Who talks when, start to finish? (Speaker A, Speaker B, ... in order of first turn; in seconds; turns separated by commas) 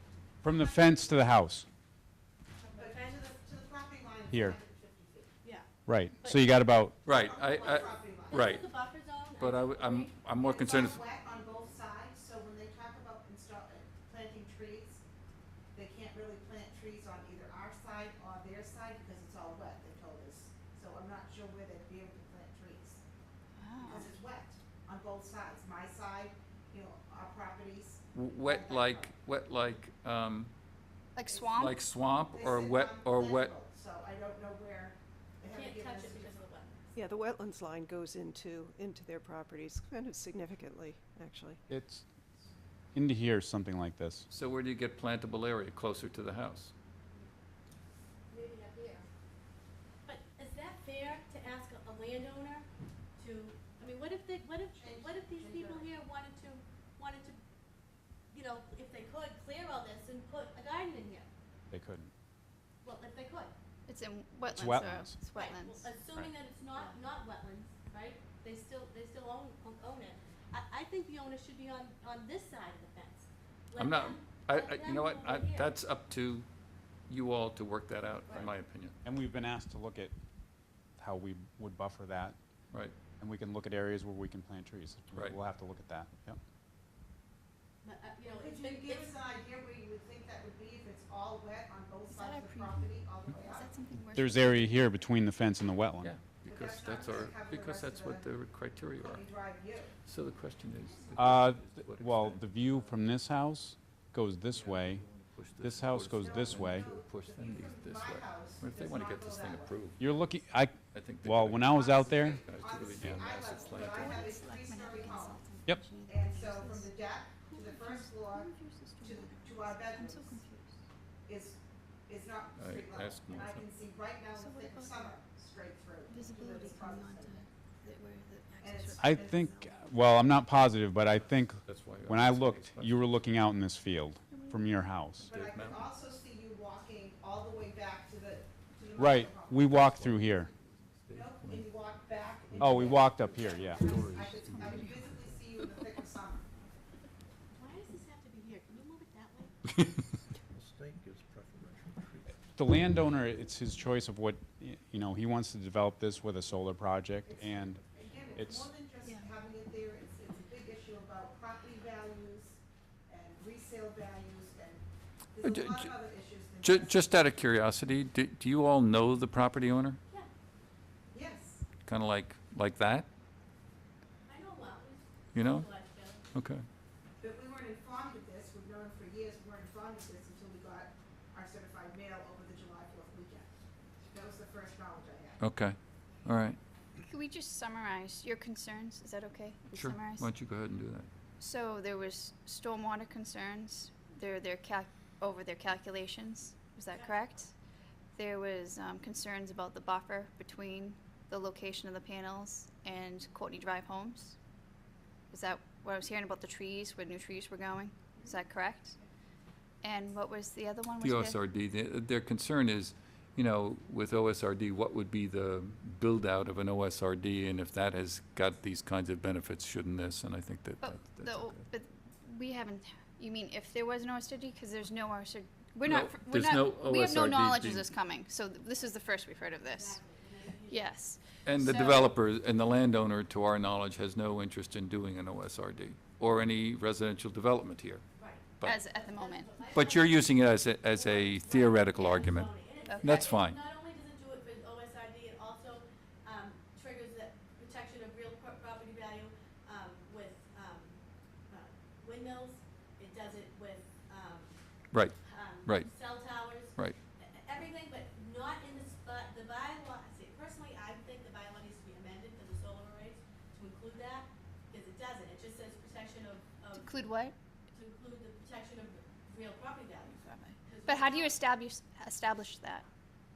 Speaker A: 0.4-1.7, Speaker B: 2.6-3.2, Speaker C: 2.8-5.3, Speaker A: 4.3-4.6, Speaker B: 5.4-5.7, Speaker A: 5.9-7.0, Speaker C: 7.0-8.6, Speaker D: 7.0-8.7, Speaker B: 7.6-10.1, Speaker D: 9.4-11.1, Speaker C: 10.4-15.0, Speaker C: 15.7-23.0, Speaker E: 23.6-24.1, Speaker C: 23.8-29.1, Speaker D: 28.1-30.5, Speaker E: 31.1-31.8, Speaker C: 31.3-31.7, Speaker D: 31.6-33.6, Speaker C: 32.3-36.3, Speaker B: 35.5-37.0, Speaker F: 37.0-41.6, Speaker A: 41.7-42.1, Speaker A: 42.9-44.3, Speaker D: 44.3-46.7, Speaker B: 48.3-49.0, Speaker B: 50.1-52.7, Speaker B: 53.2-57.4, Speaker C: 54.7-55.9, Speaker B: 58.3-61.3, Speaker A: 61.7-62.1, Speaker B: 62.8-63.5, Speaker E: 63.9-65.9, Speaker A: 64.5-65.2, Speaker B: 65.3-75.8, Speaker D: 73.8-76.5, Speaker D: 77.1-79.0, Speaker A: 79.0-80.2, Speaker A: 81.0-82.4, Speaker A: 83.2-86.4, Speaker B: 87.8-89.2, Speaker C: 88.2-93.7, Speaker E: 92.1-94.9, Speaker A: 94.1-96.1, Speaker D: 96.0-99.3, Speaker C: 96.4-98.3, Speaker C: 99.0-100.0, Speaker D: 100.0-102.4, Speaker B: 100.8-101.3, Speaker A: 101.2-105.0, Speaker G: 104.5-105.3, Speaker D: 105.3-110.0, Speaker A: 105.6-106.9, Speaker C: 106.2-109.8, Speaker A: 110.0-112.4, Speaker D: 110.9-114.1, Speaker C: 111.7-115.5, Speaker E: 113.0-120.8, Speaker C: 116.0-120.4, Speaker C: 121.3-127.5, Speaker D: 122.6-123.6, Speaker E: 124.3-125.1, Speaker E: 126.1-130.0, Speaker C: 128.6-129.5, Speaker A: 129.0-135.3, Speaker D: 131.2-133.0, Speaker E: 134.3-134.7, Speaker D: 135.2-135.9, Speaker C: 135.2-139.7, Speaker A: 139.0-140.5, Speaker D: 139.8-141.7, Speaker G: 140.1-140.4, Speaker C: 141.1-146.5, Speaker G: 142.5-145.2, Speaker A: 142.6-144.0, Speaker B: 147.5-149.6, Speaker G: 150.5-152.5, Speaker A: 152.6-157.8, Speaker C: 157.2-167.2, Speaker A: 158.4-158.7, Speaker E: 159.0-159.3, Speaker D: 165.4-166.1, Speaker D: 166.6-170.0, Speaker C: 171.1-171.7, Speaker D: 171.9-173.1, Speaker B: 174.2-176.2, Speaker D: 175.3-175.7, Speaker D: 176.3-176.7, Speaker C: 177.2-185.4, Speaker D: 185.4-186.6, Speaker E: 187.1-190.3, Speaker D: 189.7-191.1, Speaker E: 191.4-197.5, Speaker B: 196.9-197.3, Speaker E: 198.2-204.4, Speaker E: 205.3-209.0, Speaker E: 209.8-211.4, Speaker D: 211.0-221.7, Speaker E: 220.8-230.0, Speaker D: 225.8-227.9, Speaker B: 229.7-230.9, Speaker E: 230.7-232.1, Speaker D: 231.4-238.8, Speaker B: 238.2-251.0, Speaker E: 238.6-239.6, Speaker D: 239.7-243.6, Speaker E: 242.9-243.3, Speaker B: 251.5-254.5, Speaker D: 254.9-255.9, Speaker B: 255.2-267.0, Speaker E: 266.7-267.3, Speaker B: 267.7-271.4, Speaker E: 270.1-272.9